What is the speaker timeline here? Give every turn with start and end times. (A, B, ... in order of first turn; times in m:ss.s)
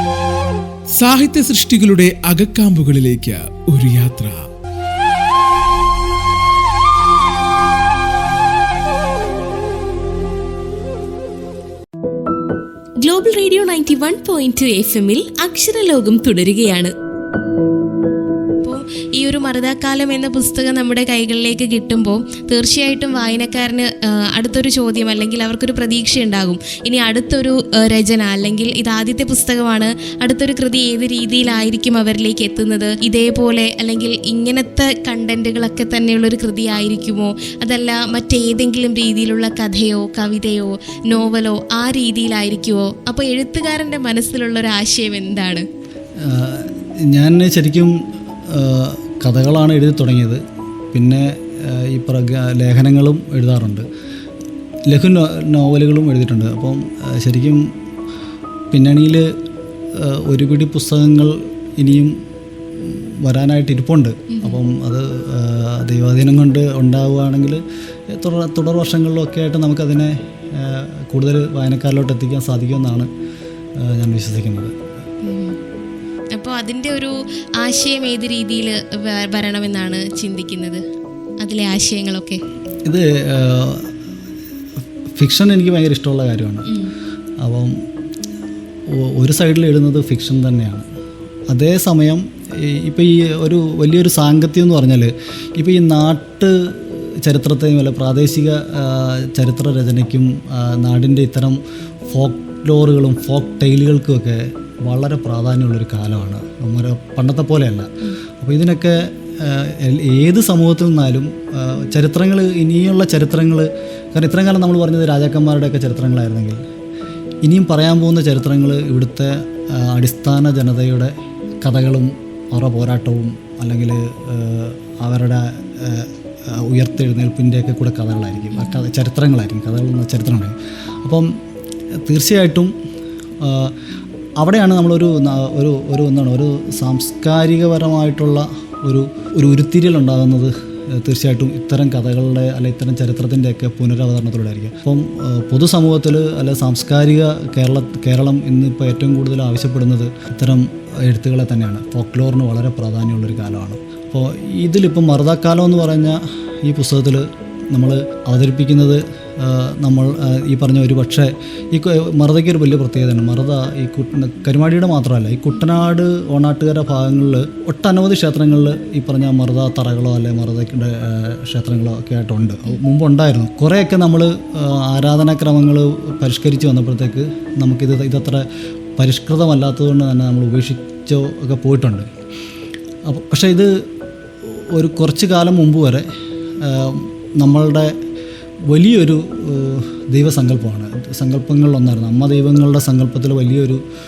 0:01.0-0:04.4 A
0:13.0-0:16.9 B
0:18.6-0:45.7 B
0:46.2-0:47.9 C
0:48.5-0:50.4 C
0:50.9-0:53.8 C
0:54.9-0:57.6 C
0:58.7-0:59.3 C
1:00.0-1:02.2 C
1:02.8-1:13.1 C
1:04.3-1:04.6 B
1:13.8-1:14.7 C
1:15.2-1:15.6 B
1:16.3-1:20.8 B
1:21.4-1:22.4 B
1:22.9-1:23.9 C
1:25.2-1:26.7 C
1:26.7-1:26.9 B
1:27.4-1:27.8 C
1:28.9-1:30.9 C
1:31.5-1:56.6 C
1:57.4-2:11.3 C
2:08.5-2:08.9 B
2:12.0-2:12.7 C
2:13.4-2:13.8 C
2:14.4-2:58.4 C
2:59.0-3:02.1 C
3:03.1-3:03.7 C
3:04.4-3:06.1 C
3:06.6-3:07.9 C
3:08.7-3:13.8 C